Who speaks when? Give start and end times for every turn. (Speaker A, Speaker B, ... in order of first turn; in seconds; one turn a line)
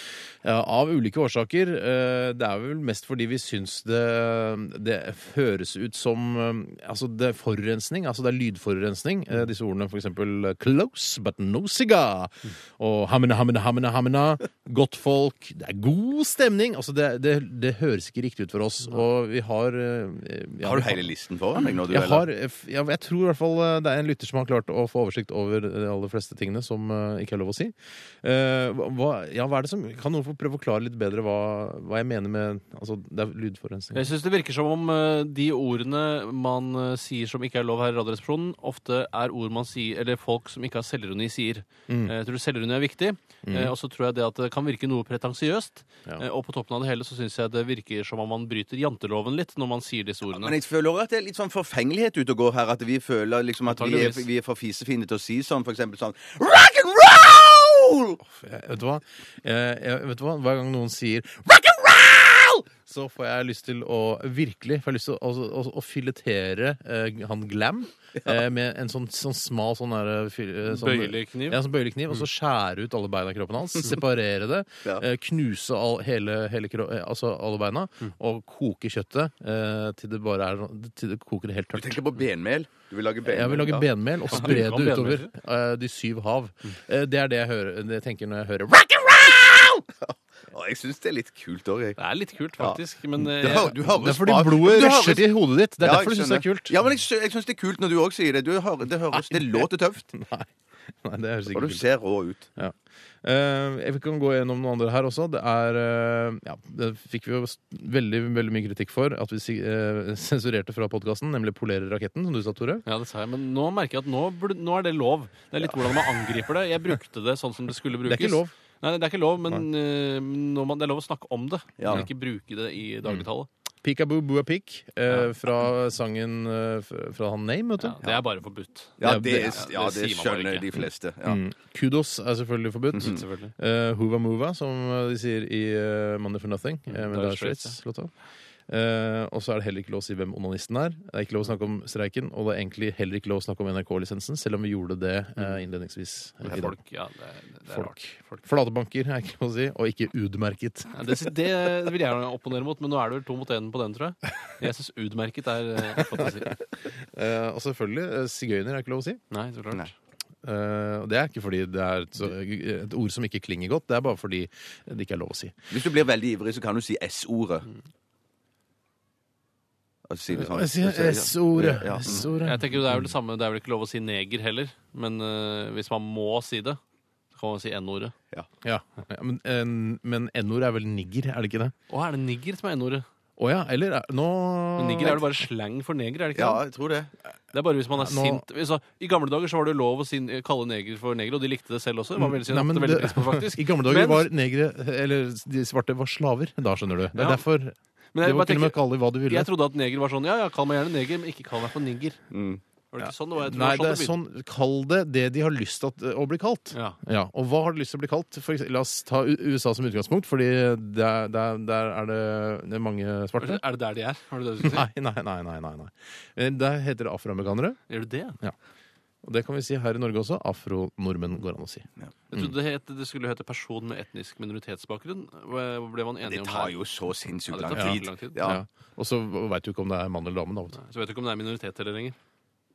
Speaker A: 0.4-21.1
Speaker B: 20.6-22.3
Speaker A: 21.9-34.1
Speaker C: 33.9-50.5
Speaker A: 41.9-42.1
Speaker A: 43.4-43.7
Speaker B: 50.3-58.2
Speaker C: 53.7-54.2
Speaker A: 58.2-82.0
Speaker C: 70.7-71.6
Speaker B: 81.8-83.9
Speaker A: 83.2-89.8
Speaker C: 84.3-85.3
Speaker B: 90.1-92.0
Speaker C: 92.0-93.8
Speaker B: 93.3-100.1
Speaker A: 93.4-96.8
Speaker A: 99.1-100.5
Speaker A: 101.0-101.9
Speaker B: 101.5-102.5
Speaker A: 102.6-112.8
Speaker C: 112.8-123.5
Speaker A: 118.0-118.5
Speaker B: 121.8-122.0
Speaker A: 123.8-128.2
Speaker C: 127.8-130.7
Speaker B: 129.0-131.4
Speaker A: 129.0-129.6
Speaker A: 131.2-138.1
Speaker C: 133.0-133.5
Speaker C: 136.9-137.8
Speaker A: 138.7-146.8
Speaker C: 146.4-148.4
Speaker A: 147.7-151.0
Speaker C: 150.9-156.6
Speaker A: 157.1-159.2
Speaker C: 159.3-159.9
Speaker A: 160.4-165.6
Speaker B: 165.7-167.7
Speaker B: 170.1-172.3
Speaker A: 170.3-173.0
Speaker C: 172.2-176.8
Speaker C: 177.3-178.1
Speaker A: 178.6-181.7
Speaker C: 181.9-183.1
Speaker A: 183.4-185.3
Speaker C: 184.8-186.6
Speaker B: 186.3-187.1
Speaker C: 187.5-194.3
Speaker A: 187.9-188.4
Speaker A: 192.2-199.5
Speaker C: 197.2-197.4
Speaker C: 198.1-202.3
Speaker B: 202.3-202.6
Speaker C: 202.9-204.2
Speaker A: 203.0-213.6
Speaker C: 213.4-214.9
Speaker A: 214.6-217.8
Speaker C: 217.9-218.4
Speaker A: 219.2-222.5
Speaker C: 222.3-226.8
Speaker B: 226.2-228.6
Speaker C: 227.5-228.4
Speaker A: 227.7-230.8
Speaker C: 230.8-232.2